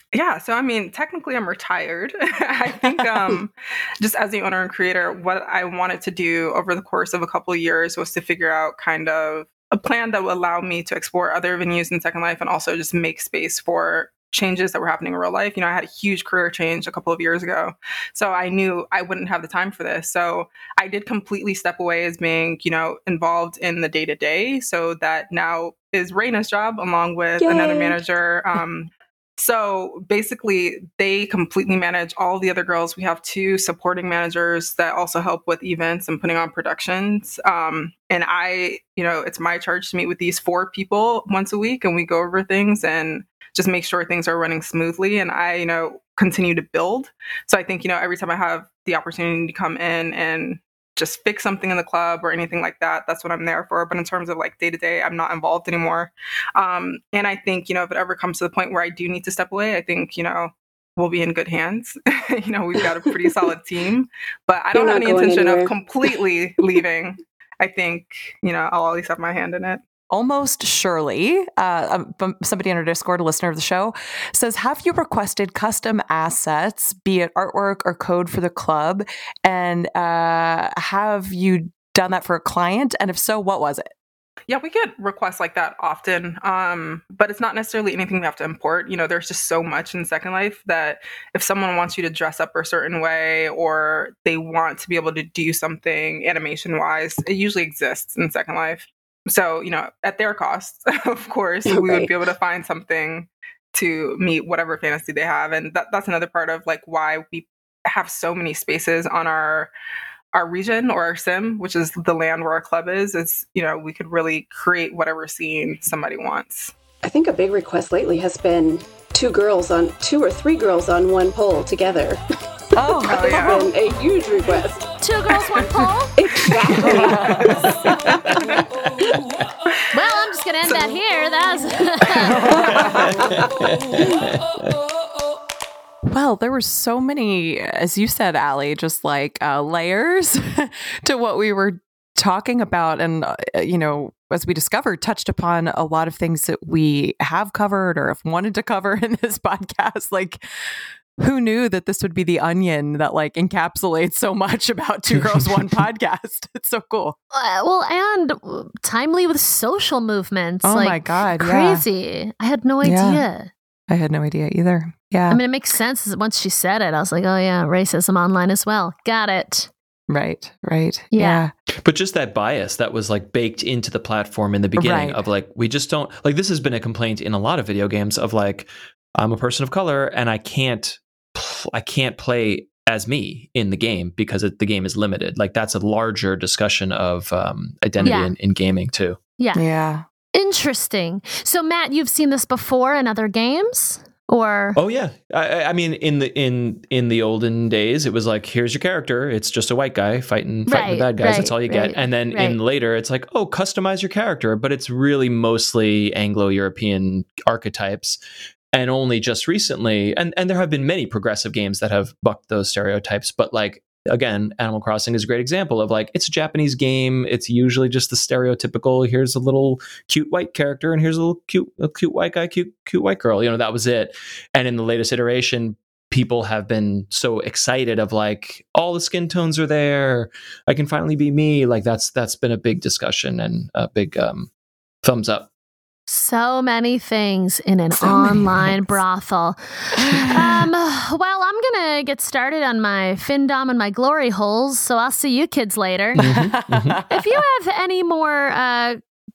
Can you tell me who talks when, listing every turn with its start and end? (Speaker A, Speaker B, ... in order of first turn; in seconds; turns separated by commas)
Speaker A: 0.1-69.8, Speaker B: 27.4-28.0, Speaker B: 64.7-66.1, Speaker C: 70.1-83.9, Speaker A: 84.5-109.7, Speaker B: 101.7-102.1, Speaker A: 110.3-116.7, Speaker B: 117.0-122.2, Speaker C: 122.8-123.7, Speaker A: 123.0-123.7, Speaker B: 123.2-124.9, Speaker D: 125.0-126.1, Speaker B: 126.2-128.2, Speaker C: 126.8-127.6, Speaker D: 129.9-132.6, Speaker A: 130.6-130.9, Speaker C: 132.4-132.8, Speaker A: 132.4-133.3, Speaker E: 132.7-134.7, Speaker C: 136.1-150.4, Speaker C: 151.2-157.2, Speaker E: 155.1-155.4, Speaker D: 157.3-163.5, Speaker C: 160.6-161.8, Speaker C: 162.8-163.2, Speaker C: 163.9-165.4, Speaker D: 165.3-169.7, Speaker C: 170.1-171.5, Speaker D: 171.1-171.4, Speaker E: 171.8-189.2, Speaker C: 174.8-175.2, Speaker D: 188.0-188.3, Speaker D: 189.4-189.6, Speaker C: 189.5-190.0, Speaker D: 190.3-194.8, Speaker E: 194.7-208.2, Speaker D: 200.7-202.6, Speaker E: 208.7-234.5, Speaker E: 235.0-235.5, Speaker D: 236.1-246.3, Speaker C: 238.0-238.7, Speaker C: 246.1-247.0, Speaker E: 246.2-247.0, Speaker D: 247.1-249.0